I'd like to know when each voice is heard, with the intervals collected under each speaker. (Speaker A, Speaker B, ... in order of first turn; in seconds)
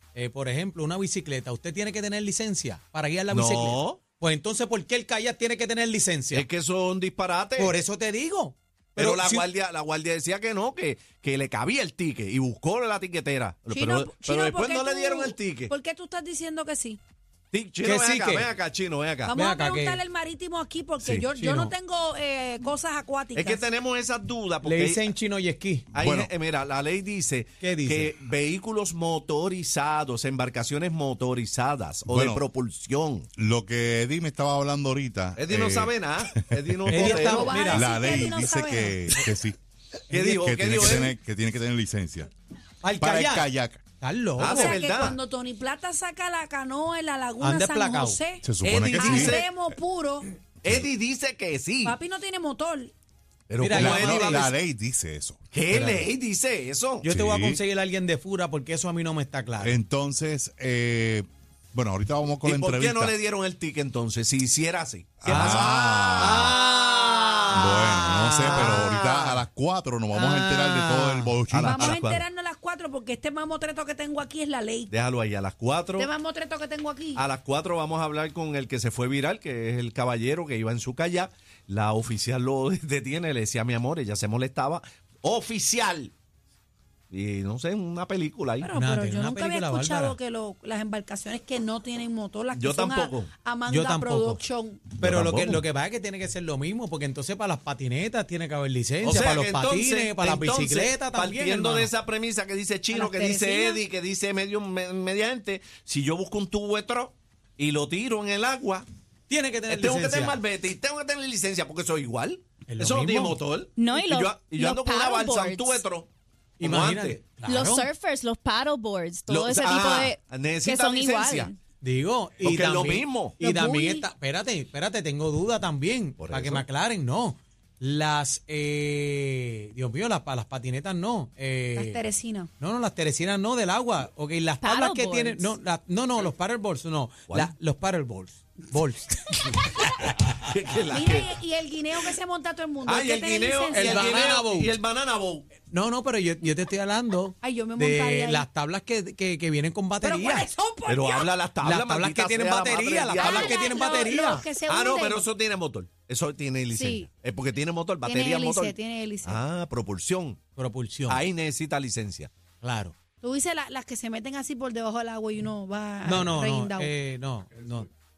Speaker A: 0.1-6.5, 7.6-9.5, 17.8-18.5, 19.3-20.0, 21.2-21.7, 24.6-25.9, 27.6-28.1, 36.9-37.9, 42.8-44.8, 47.4-48.2, 53.6-54.5, 55.7-56.0, 57.0-59.8, 65.2-69.4, 70.1-71.4, 88.7-90.2, 93.7-94.4, 95.0-101.9, 109.3-110.4, 112.7-113.4, 116.6-117.9, 121.8-132.0, 132.6-140.3, 143.7-144.7, 145.7-150.5, 151.6-154.4, 160.6-161.2, 162.6-162.9, 166.0-167.9
Speaker B: 3.3-4.0, 6.3-7.7, 9.0-15.7, 17.5-19.4, 23.3-25.0, 25.9-33.3, 35.4-37.5, 40.1-41.1, 44.4-45.2, 48.6-49.5, 50.6-52.0, 53.5-54.5, 55.5-57.1, 62.4-67.6, 68.4-69.4, 71.5-72.2, 74.9-76.1, 77.1-86.1, 87.1-88.7, 92.5-93.3, 95.0-95.6, 99.0-108.8, 109.7-116.1, 116.6-117.2, 119.3-121.5, 122.4-123.4, 126.2-126.6, 139.4-141.3, 142.8-145.5, 150.8-153.7, 154.6-160.4, 161.1-162.3
Speaker C: 13.7-17.0, 19.2-23.7, 36.9-39.0, 44.4-50.3, 51.8-52.9, 71.6-74.9, 76.0-77.2, 88.6-95.0, 102.9-103.8, 123.4-124.1, 131.7-132.5, 140.8-144.4, 147.4-148.5, 150.0-151.3, 153.1-155.3, 156.7-157.1, 158.0-159.4, 163.2-166.9
Speaker D: 25.9-26.3, 32.1-32.4, 33.4-39.5, 40.1-42.3, 43.0-43.8, 48.4-49.5, 53.7-55.5, 57.0-57.6, 59.6-63.1, 65.2-66.6, 67.5-72.0
Speaker E: 113.8-115.8, 117.4-121.6, 134.6-135.5